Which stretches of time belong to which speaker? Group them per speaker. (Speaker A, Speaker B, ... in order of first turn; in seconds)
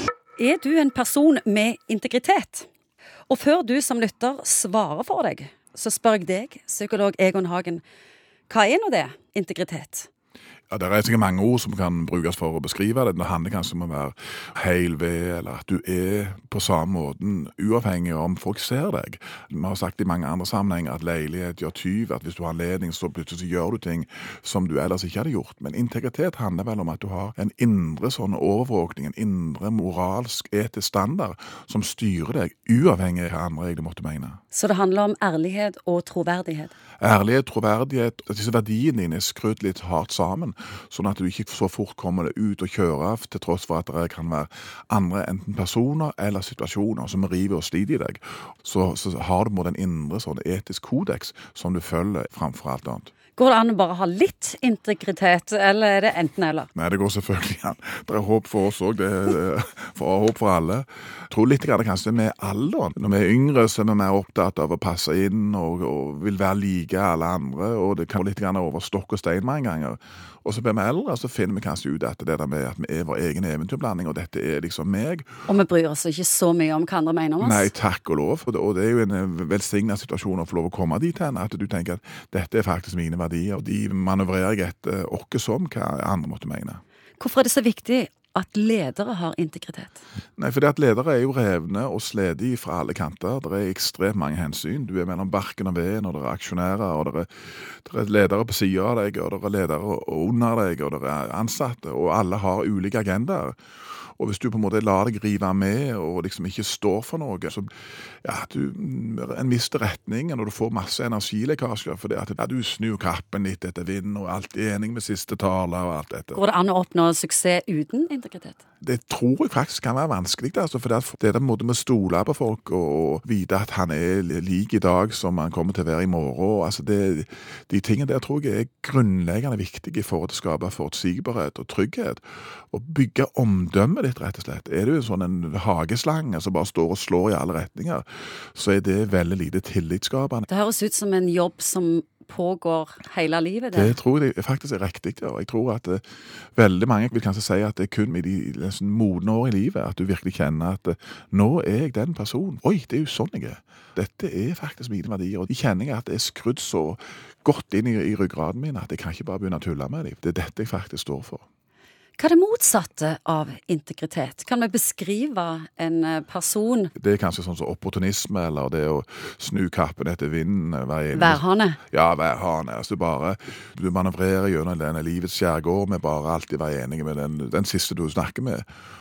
Speaker A: 0.4-2.7, 3.3-7.8, 8.5-10.1, 34.5-36.7, 53.4-56.7, 75.5-77.7, 87.2-90.0, 116.3-118.6, 140.5-144.0, 162.2-166.9, 171.1-171.8
Speaker B: 10.7-34.4, 37.0-53.1, 56.7-75.3, 77.4-86.8, 90.4-103.6, 104.2-107.7, 108.2-116.4, 118.8-140.5, 143.7-146.0, 146.6-161.4, 166.9-178.6